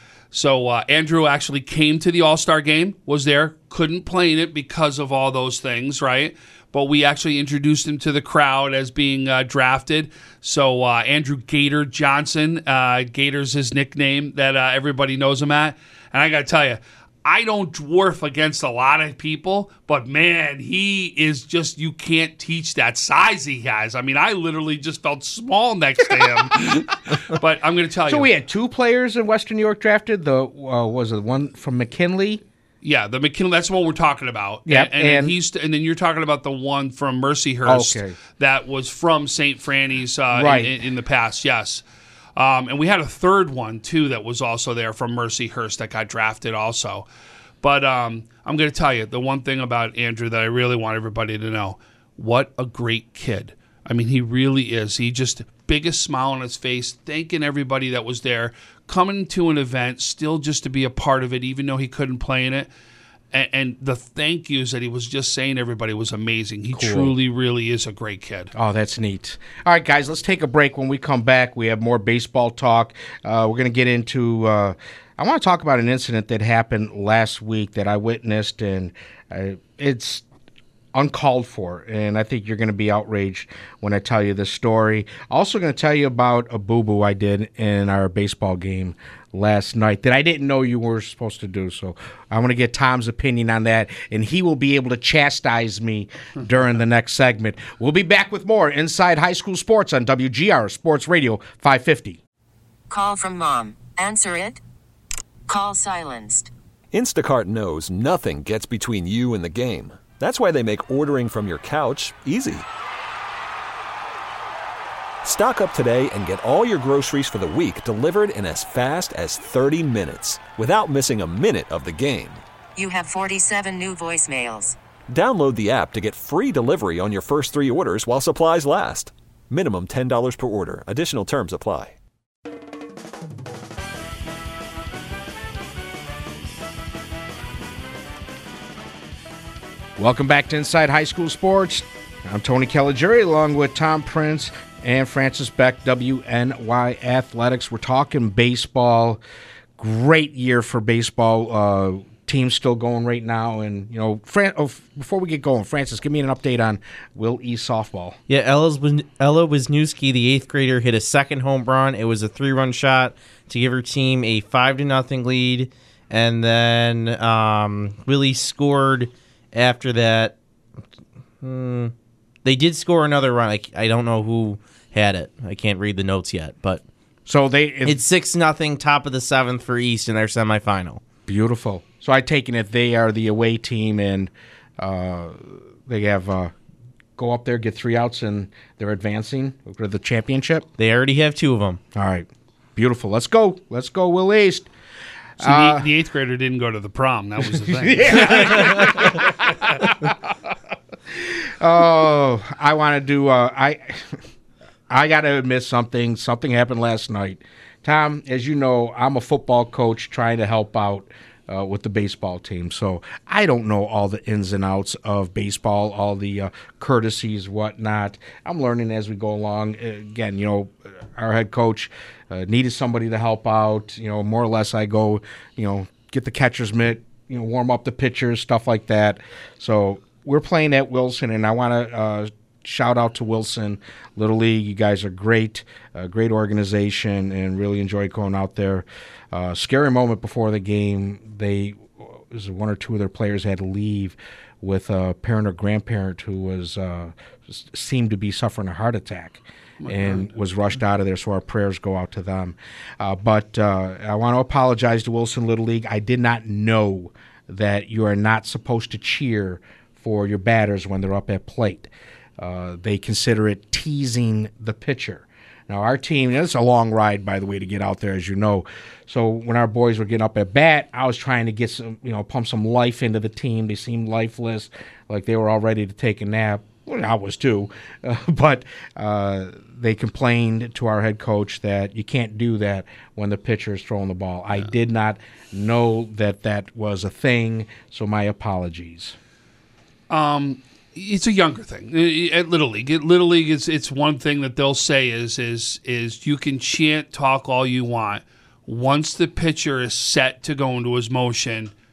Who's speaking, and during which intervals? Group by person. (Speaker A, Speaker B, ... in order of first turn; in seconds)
Speaker A: 0.3-28.3, 32.8-41.8, 42.4-47.1, 47.6-62.7, 63.3-68.5, 195.4-199.8, 249.8-250.3, 290.1-301.7
Speaker B: 28.1-32.4, 34.7-35.3, 37.6-38.1, 40.3-40.7, 66.7-67.1, 68.5-80.2, 80.9-102.2, 140.0-149.2, 149.8-158.2, 177.3-178.0, 181.3-186.5, 187.2-190.7, 191.9-194.7, 195.4-195.9, 197.4-200.1, 201.2-204.2, 204.9-289.1
Speaker C: 102.9-104.6, 105.5-106.5, 122.8-124.8
Speaker D: 106.9-112.7, 115.2-122.4, 125.1-131.9
Speaker E: 158.3-170.3, 171.4-171.9, 172.4-176.8, 177.8-181.0, 190.8-191.8